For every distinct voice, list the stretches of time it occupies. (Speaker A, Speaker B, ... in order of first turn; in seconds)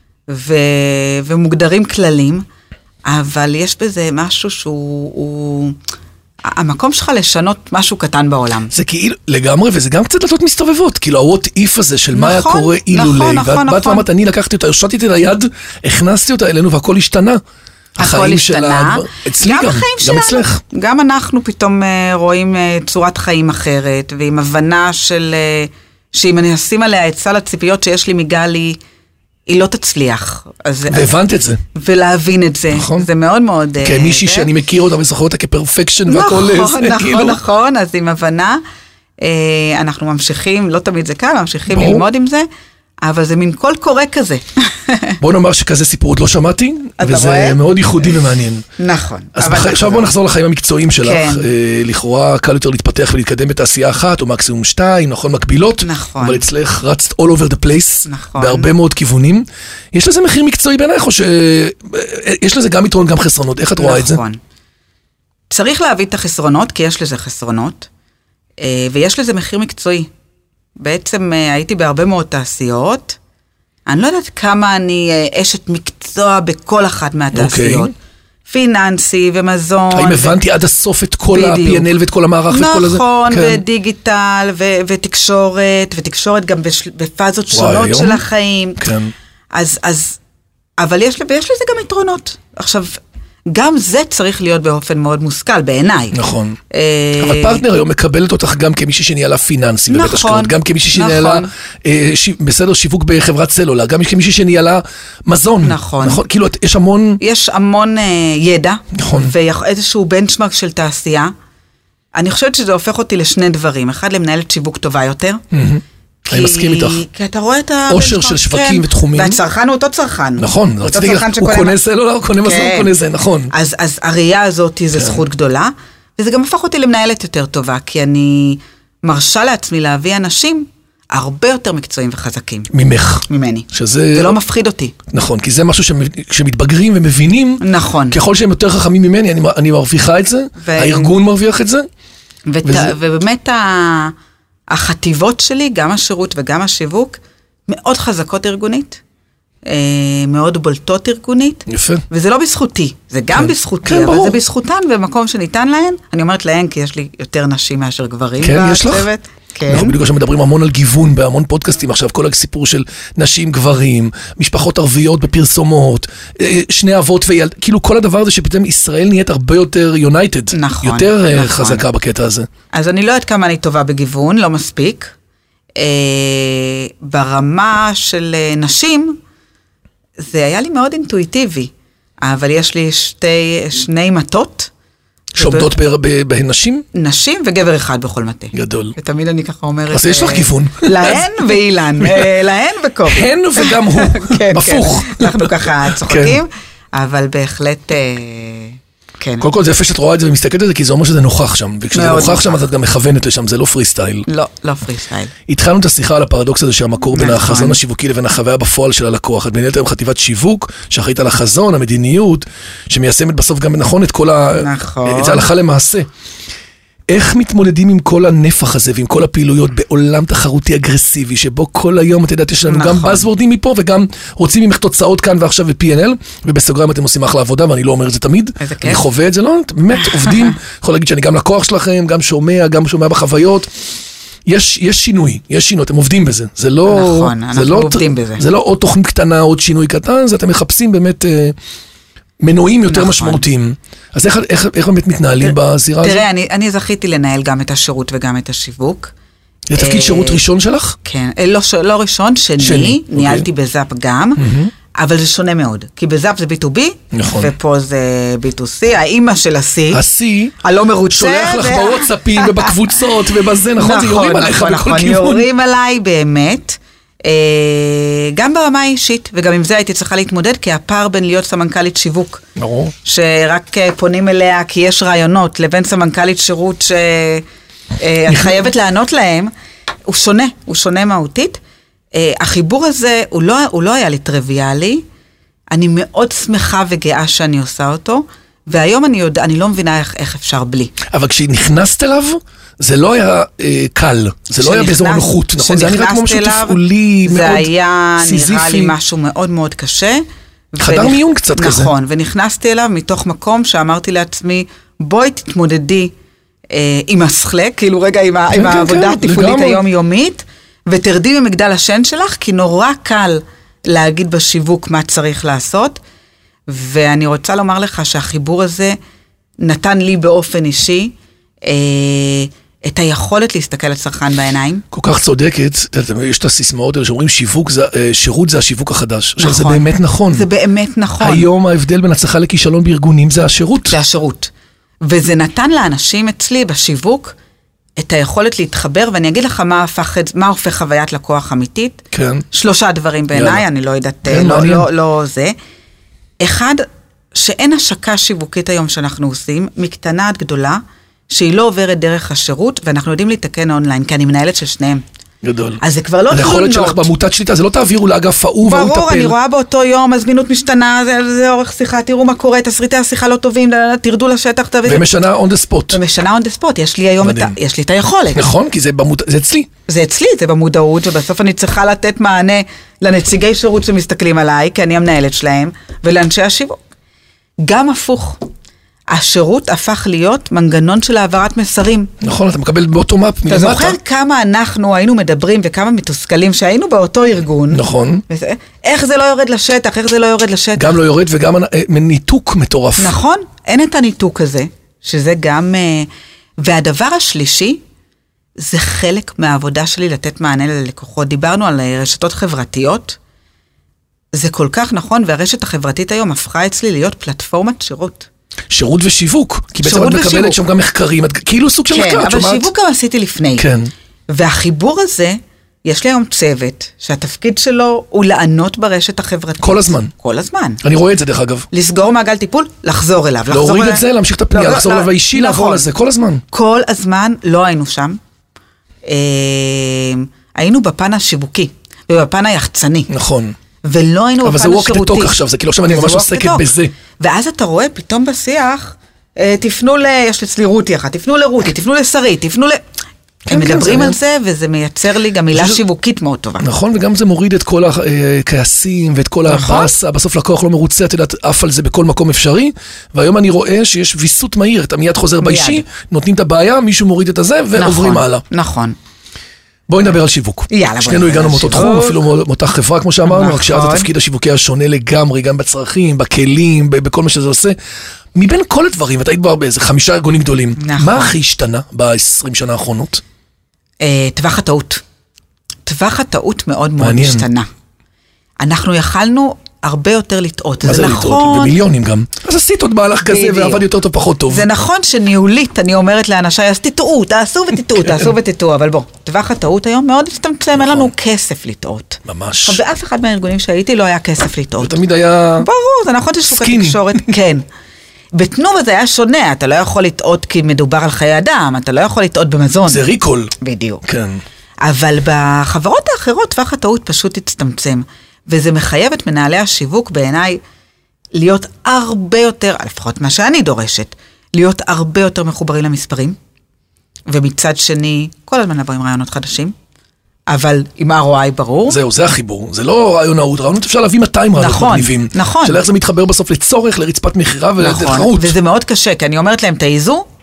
Speaker A: 0.3-2.4, 3.0-5.8, 6.5-8.7, 12.1-14.1, 18.0-28.8, 29.5-31.1, 31.7-34.5, 36.1-38.6, 39.2-42.5, 43.0-45.2, 47.0-47.6, 48.8-50.1, 51.0-51.5, 55.8-56.5, 58.0-58.7, 63.8-64.4, 65.5-67.9, 68.6-70.1, 70.8-73.2, 73.8-77.9, 78.5-80.4, 81.3-81.9, 82.5-88.8, 89.5-90.2, 90.8-96.2, 96.7-97.6, 99.9-101.5, 105.6-106.2, 107.2-111.3, 112.1-115.4, 116.2-121.8, 122.4-122.9, 123.5-132.7, 133.3-134.9, 137.6-138.2, 140.6-141.1, 142.5-144.1, 144.7-149.0, 149.7-160.0, 170.5-171.8, 172.7-175.1, 175.8-179.2, 180.2-184.7, 185.3-185.7, 186.9-199.5, 201.9-202.7, 204.3-205.3, 207.1-207.8, 214.5-215.5, 222.7-223.3, 228.6-229.0, 230.2-230.5, 236.8-238.4, 242.9-243.4, 245.4-249.1, 249.8-250.4, 251.0-260.0, 260.6-272.4, 273.0-277.4, 278.0-279.5, 280.1-281.6, 282.1-285.0, 285.7-290.9, 294.6-306.1, 306.7-316.0, 316.7-318.9, 319.6-324.8, 329.4-331.5, 333.9-334.5, 335.0-337.3, 338.0-345.5, 346.4-355.0, 355.8-357.1, 358.6-365.0, 365.9-368.5, 369.9-376.8, 377.6-378.4, 379.1-382.1, 383.5-391.0, 393.0-397.8, 398.6-403.2, 404.3-408.3, 409.8-410.6, 411.9-413.7, 414.3-420.8, 421.7-425.8, 426.5-428.2, 429.1-433.1, 433.8-442.8, 443.4-446.6, 449.5-449.9, 455.4-455.9, 457.8-459.0, 460.7-462.2, 463.2-464.1, 470.8-471.3, 474.0-475.0, 475.9-477.7, 478.6-481.8, 483.2-483.8, 484.5-495.0, 495.6-497.6, 498.3-503.0, 503.6-504.0, 504.8-510.6, 511.3-516.4, 517.3-519.7, 520.5-522.0, 524.6-525.8, 527.8-530.2
Speaker B: 8.7-17.4, 18.0-20.6, 30.9-31.6, 32.7-33.1, 33.8-37.4, 41.7-42.0, 45.2-48.6, 49.4-64.2, 77.3-77.9, 79.9-83.6, 87.5-88.2, 88.8-89.1, 96.1-96.6, 97.2-107.2, 108.9-109.3, 115.5-117.0, 117.9-119.4, 120.4-123.5, 132.7-134.4, 135.1-141.8, 142.6-142.9, 151.7-152.0, 153.3-154.4, 158.4-159.1, 159.7-172.5, 185.4-186.8, 188.5-188.9, 189.9-192.3, 193.1-196.4, 199.4-204.2, 205.5-216.1, 217.1-233.7, 234.4-241.6, 242.4-246.2, 249.7-251.0, 252.6-253.5, 254.4-254.7, 257.1-257.5, 259.9-260.6, 261.1-265.4, 272.6-272.9, 278.3-278.6, 291.0-298.9, 300.8-301.9, 308.5-309.8, 324.9-330.5, 331.2-333.9, 342.1-342.4, 343.3-343.6, 344.2-344.9, 355.4-359.3, 364.8-366.0, 367.2-367.5, 368.3-369.7, 382.2-384.0, 387.7-388.2, 390.8-393.1, 408.7-412.7, 413.6-413.9, 419.6-420.1, 420.8-421.7, 423.5-426.4, 433.1-433.5, 434.4-436.9, 443.5-444.2, 445.5-445.8, 446.6-458.4, 459.9-467.8, 468.3-473.2, 477.0-477.5, 480.8-484.7, 488.0-488.3, 490.8-491.1, 492.2-492.8, 494.8-495.7, 496.5-497.3, 502.9-503.5, 504.0-504.4, 521.9-528.5